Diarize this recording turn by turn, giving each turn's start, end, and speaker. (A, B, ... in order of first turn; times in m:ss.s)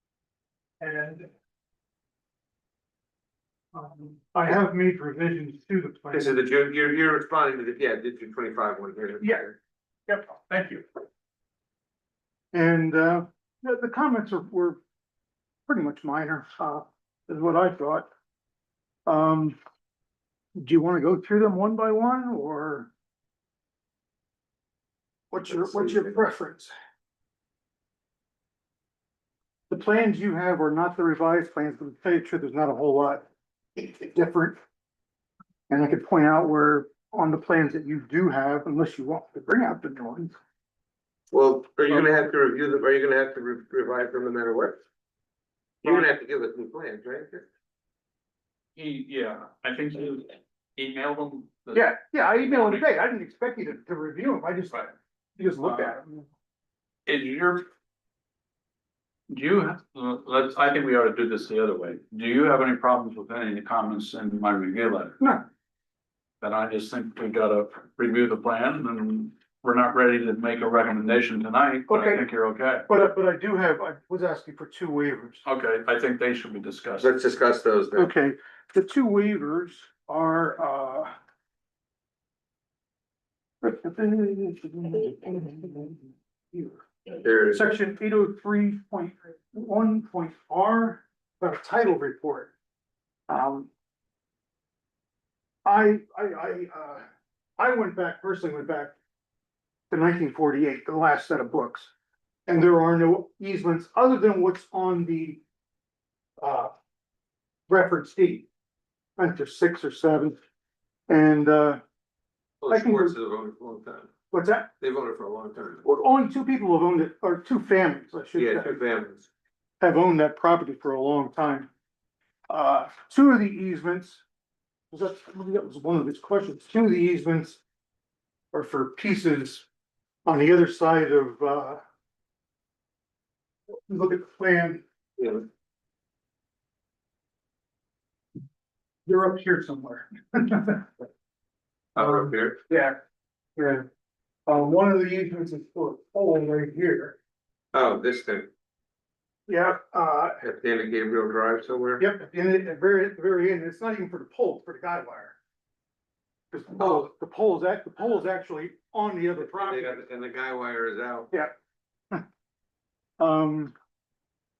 0:00.8-0:01.3 A
0:03.7-0:06.4 A
0:06.1-0:09.5 B
0:09.2-0:09.4 A
0:10.1-0:10.3 A
0:10.5-0:10.8 C
0:12.5-0:14.8 A
0:15.7-0:18.1 A
0:19.0-0:19.6 A
0:20.6-0:22.9 A
0:25.3-0:26.7 A
0:25.5-0:26.1 B
0:29.7-0:34.6 A
0:35.7-0:40.3 A
0:41.3-0:44.8 B
0:45.8-0:47.4 B
0:48.8-0:52.9 C
0:51.7-0:54.8 A
0:55.4-0:56.2 A
0:55.6-0:55.9 C
0:57.0-0:57.6 C
0:59.3-1:05.2 C
1:06.4-1:12.8 C
1:11.9-1:12.3 A
1:12.8-1:15.4 A
1:15.4-1:17.1 C
1:17.0-1:18.1 B
1:18.0-1:21.1 A
1:23.6-1:26.8 A
1:27.2-1:27.6 B
1:27.5-1:32.5 A
1:33.3-1:33.7 A
1:35.6-1:37.0 A
1:37.6-1:39.0 A
1:39.9-1:41.9 A
1:42.5-1:45.4 A
1:46.4-1:46.7 A
1:47.7-1:48.5 A
1:49.2-1:50.4 A
1:51.1-1:51.8 A
1:52.6-1:54.1 B
1:52.7-1:53.1 A
1:54.3-1:54.7 A
1:54.8-1:55.8 B
1:55.8-1:58.7 A
1:58.4-1:59.3 B
1:59.8-2:01.7 A
2:02.5-2:04.2 A
2:04.9-2:07.6 A
2:08.5-2:09.7 A
2:10.2-2:11.8 A
2:13.9-2:14.8 A
2:15.2-2:15.4 B
2:19.0-2:20.9 A
2:22.0-2:22.6 B
2:22.0-2:23.0 A
2:23.6-2:23.8 A
2:24.5-2:27.2 A
2:27.7-2:28.5 B
2:29.5-2:30.4 A
2:30.4-2:32.0 B
2:32.0-2:35.4 A
2:36.5-2:40.0 A
2:39.4-2:41.3 B
2:43.2-2:43.7 A